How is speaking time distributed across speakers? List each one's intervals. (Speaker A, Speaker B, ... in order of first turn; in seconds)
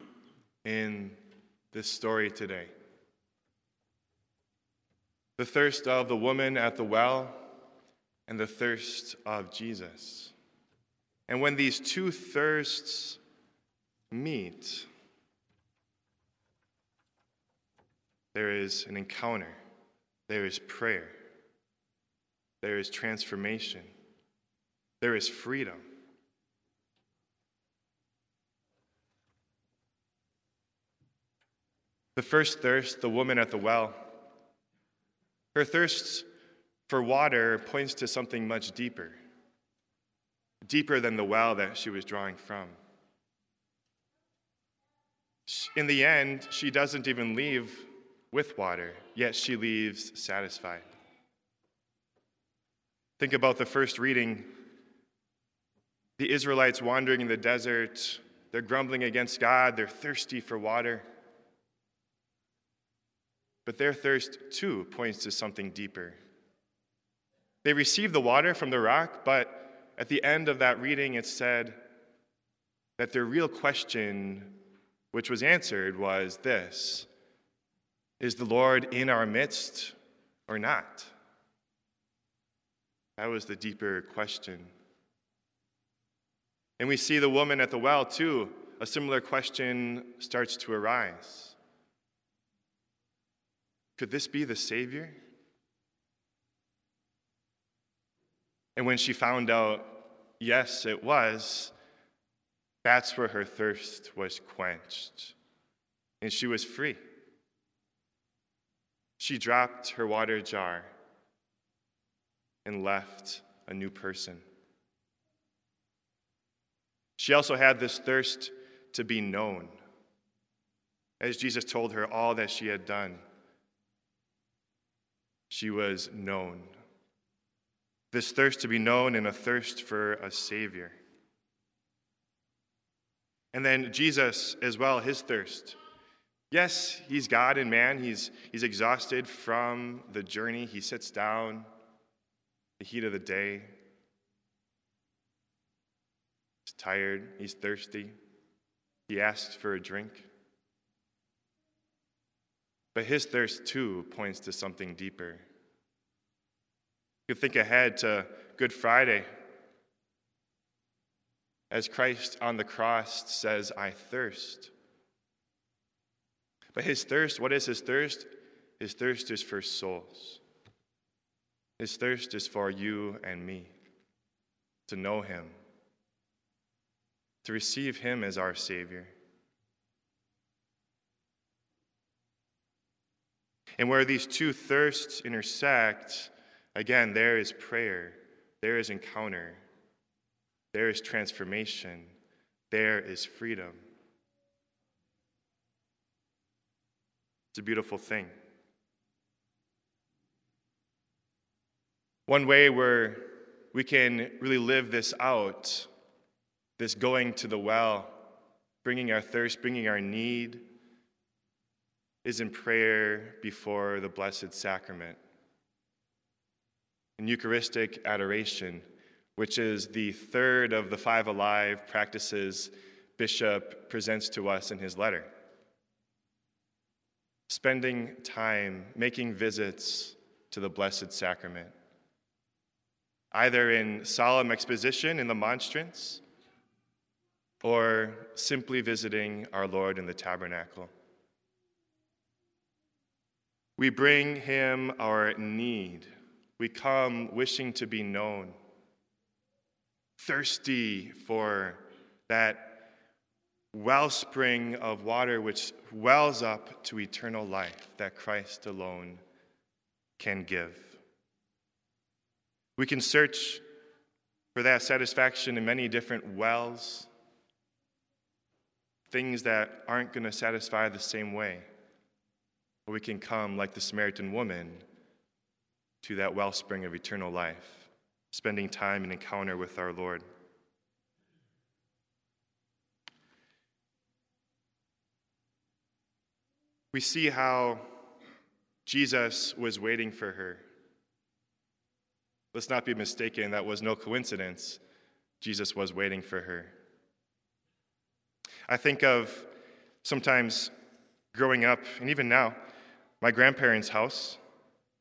Speaker A: 0.6-1.2, 1.7-2.7, 5.4-7.4, 8.3-10.3, 11.3-13.2, 14.1-14.9, 18.3-19.6, 20.3-21.1, 22.6-23.9, 25.0-25.8, 32.1-34.1, 35.5-36.2, 36.9-39.2, 40.6-42.8, 45.5-50.9, 53.2-54.5, 56.2-61.0, 63.6-66.2, 67.6-71.8, 73.0-74.6, 75.1-77.1, 78.2-80.0, 80.5-81.1, 83.2-84.7, 86.8-91.5, 94.0-95.2, 98.8-101.7, 102.8-105.3, 106.2-107.0, 109.2-110.9, 112.6-114.4, 117.2-119.8, 121.2-123.2, 125.5-126.7, 128.1-131.0, 133.5-135.8, 136.5-141.7, 142.8-143.7, 146.6-148.1, 149.1-150.3, 152.9-155.4, 157.3-159.3, 161.7-164.7, 166.7-170.4, 171.8-173.7, 174.9-175.5, 177.4-179.1, 183.8-189.6, 190.7-192.1, 192.7-193.8, 197.5-198.3, 202.3-205.9, 206.8-208.2, 208.8-210.7, 212.2-215.2, 217.2-218.8, 219.3-225.3, 227.5-231.7, 233.3-236.2, 237.6-240.9, 243.8-248.6, 250.2-252.9, 253.7-259.2, 260.2-261.0, 262.8-263.6, 264.5-267.1, 269.1-271.6, 272.9-274.8, 276.0-280.2, 286.9-287.9, 288.8-290.6, 292.5-294.8, 295.4-296.7, 298.7-299.5, 300.0-300.7, 301.3-302.6, 303.2-304.4